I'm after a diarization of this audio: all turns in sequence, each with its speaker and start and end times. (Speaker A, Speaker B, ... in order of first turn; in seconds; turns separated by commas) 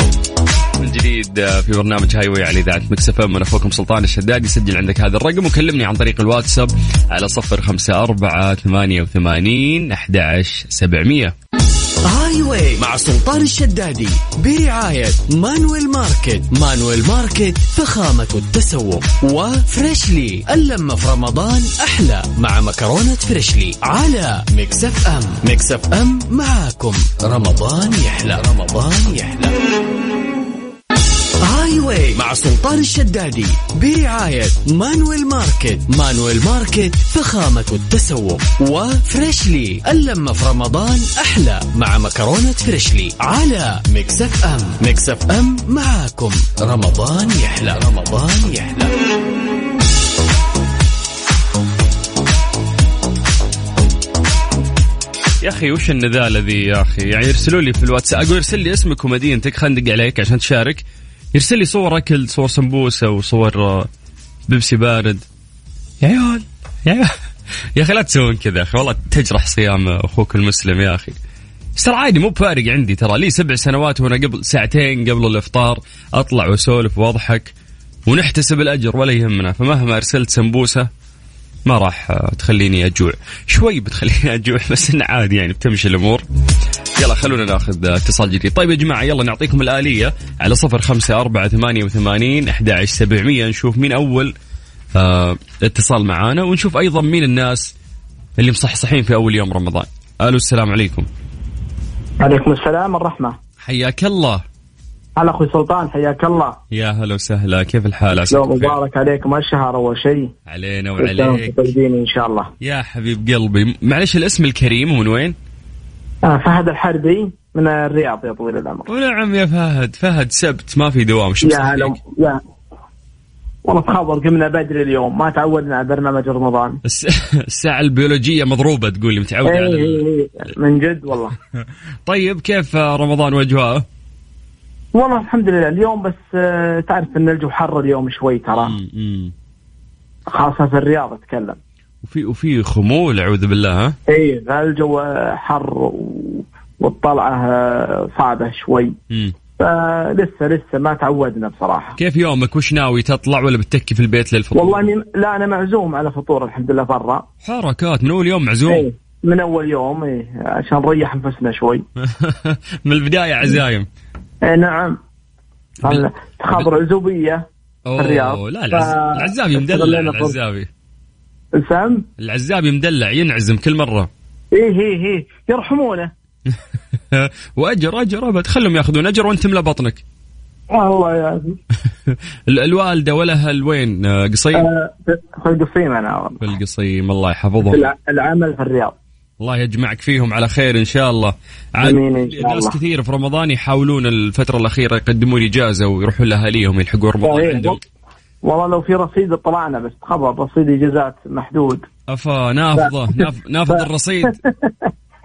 Speaker A: 0.8-11.3, Speaker B: 12.0-29.6, Speaker B: 31.4-48.9, Speaker A: 55.4-63.9, Speaker A: 64.5-65.2, Speaker A: 66.0-67.1, Speaker A: 67.7-71.2, Speaker A: 71.8-77.5, Speaker A: 78.1-80.9, Speaker A: 81.7-86.2, Speaker A: 87.0-94.3, Speaker A: 95.0-97.7, Speaker A: 98.4-101.1, Speaker C: 102.2-103.4, Speaker A: 103.6-104.4, Speaker C: 105.2-106.6, Speaker A: 106.7-108.7, Speaker C: 108.1-110.3, Speaker A: 110.5-111.5, Speaker C: 111.0-112.5, Speaker A: 112.6-115.3, Speaker C: 116.2-118.9, Speaker A: 118.9-122.0, Speaker C: 121.4-122.4, Speaker C: 123.6-126.8, Speaker A: 126.8-130.0, Speaker C: 129.4-131.3, Speaker A: 132.1-133.8, Speaker C: 134.9-138.7, Speaker A: 138.5-139.3, Speaker C: 140.3-141.6, Speaker A: 142.0-143.9, Speaker C: 144.1-148.9, Speaker A: 149.1-149.3, Speaker C: 149.6-151.9, Speaker A: 152.0-154.9, Speaker C: 154.5-157.2, Speaker A: 157.4-158.9, Speaker C: 158.7-161.8, Speaker A: 162.0-163.9, Speaker C: 164.4-165.0, Speaker A: 165.8-166.7, Speaker C: 165.8-167.4, Speaker A: 167.8-170.7, Speaker C: 168.0-170.3, Speaker C: 171.6-172.1, Speaker A: 172.2-174.1, Speaker C: 174.5-176.1, Speaker A: 177.1-180.0, Speaker C: 180.7-181.6, Speaker A: 182.1-184.7, Speaker C: 184.5-186.4, Speaker A: 186.4-187.8, Speaker C: 187.7-188.9, Speaker A: 189.4-197.8, Speaker C: 191.8-192.7, Speaker C: 197.2-197.8, Speaker C: 198.4-201.8, Speaker A: 202.1-204.3, Speaker C: 202.8-204.9